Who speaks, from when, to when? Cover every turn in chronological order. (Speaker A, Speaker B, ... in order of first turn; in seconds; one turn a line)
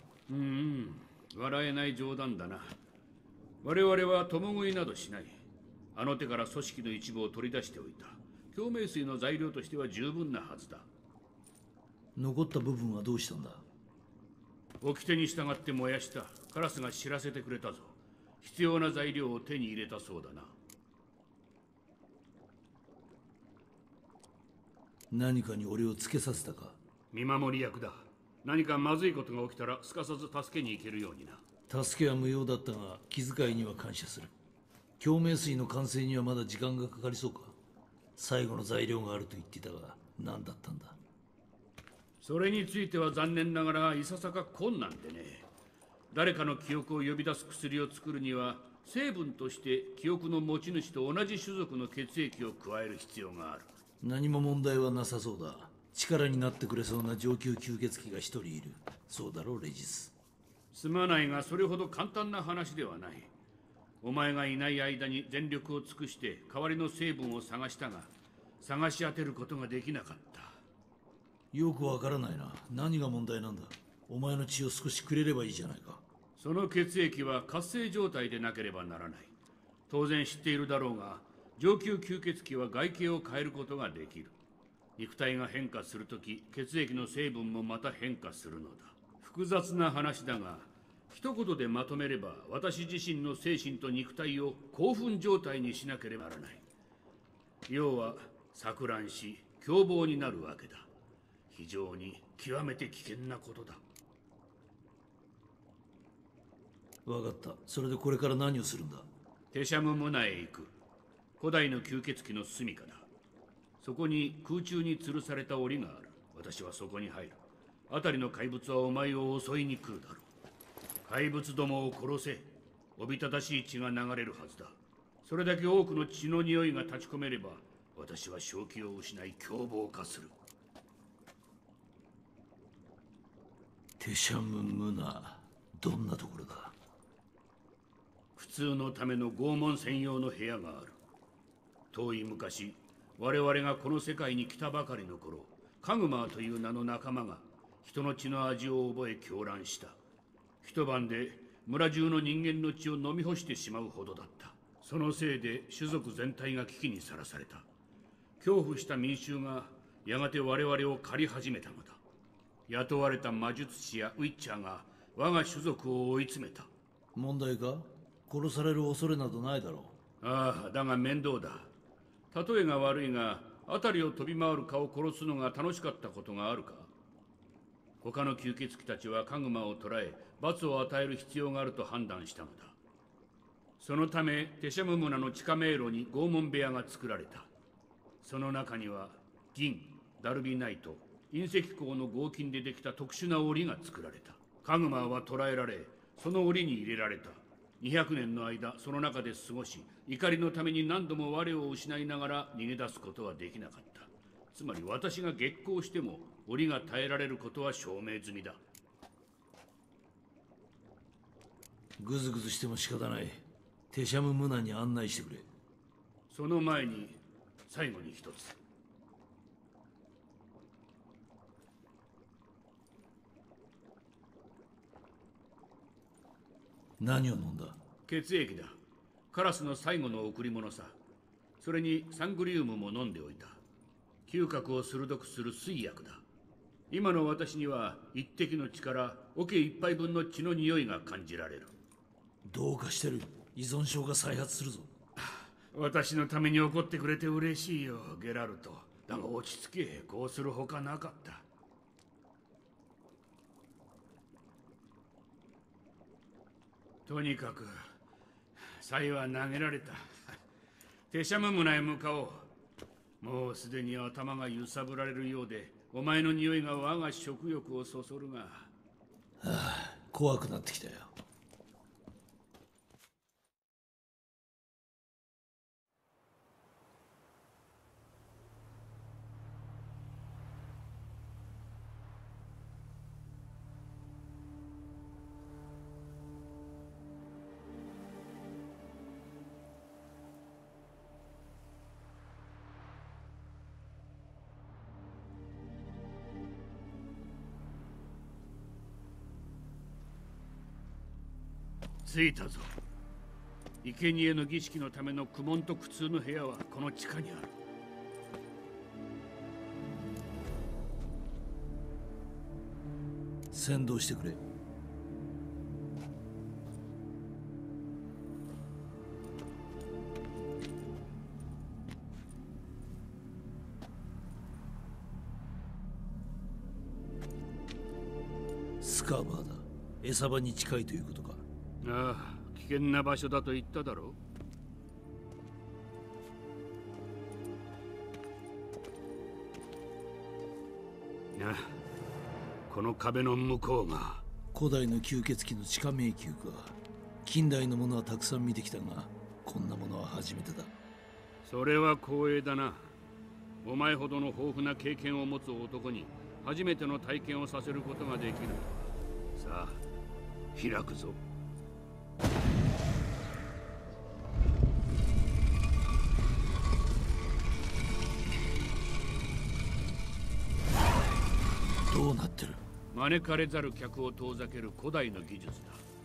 Speaker A: 0.3-2.8
Speaker A: 3.6-5.4
Speaker A: 5.9-10.9
Speaker B: 12.2-13.6
Speaker A: 14.8-20.5
Speaker B: 25.1-26.8
Speaker A: 27.1-31.4
Speaker B: 31.7-34.3
Speaker B: 35.0-37.5
Speaker B: 38.2-41.0
Speaker A: 42.2-45.5
Speaker A: 46.1-53.7
Speaker B: 54.0-60.1
Speaker A: 60.7-63.3
Speaker A: 64.0-70.6
Speaker B: 71.5-76.0
Speaker A: 76.4-79.3
Speaker A: 79.9-84.3
Speaker A: 85.0-96.6
Speaker A: 97.7-100.9
Speaker A: 101.5-103.8
Speaker B: 107.0-109.1
Speaker A: 109.5-110.7
Speaker A: 111.4-113.1
Speaker A: 113.8-117.4
Speaker A: 117.9-120.2
Speaker A: 121.0-130.3
Speaker B: 134.0-136.8
Speaker A: 138.3-141.0
Speaker A: 141.9-150.0
Speaker A: 150.6-157.7
Speaker A: 158.4-162.0
Speaker A: 162.7-166.7
Speaker B: 167.1-169.9
Speaker A: 170.2-171.7
Speaker A: 172.3-176.9
Speaker A: 178.0-182.8
Speaker A: 183.8-187.5
Speaker A: 188.2-208.6
Speaker B: 212.0-215.5
Speaker A: 216.3-218.6
Speaker B: 227.0-227.8
Speaker A: 228.1-228.8
Speaker A: 229.3-230.9
Speaker A: 231.6-233.6
Speaker A: 234.2-236.2
Speaker A: 236.9-241.7
Speaker B: 242.4-244.9
Speaker A: 245.2-251.4
Speaker A: 257.1-257.8
Speaker A: 258.7-260.4
Speaker A: 261.1-262.5
Speaker A: 263.2-268.7
Speaker B: 269.4-271.1
Speaker A: 302.0-302.8
Speaker A: 303.8-307.5
Speaker B: 313.5-314.4
Speaker B: 328.8-331.4
Speaker A: 331.8-334.2
Speaker A: 341.3-341.8
Speaker A: 342.7-344.2
Speaker B: 344.5-350.7
Speaker A: 351.4-352.9
Speaker A: 353.6-359.8
Speaker A: 360.5-361.2
Speaker B: 371.9-372.6
Speaker A: 372.9-375.8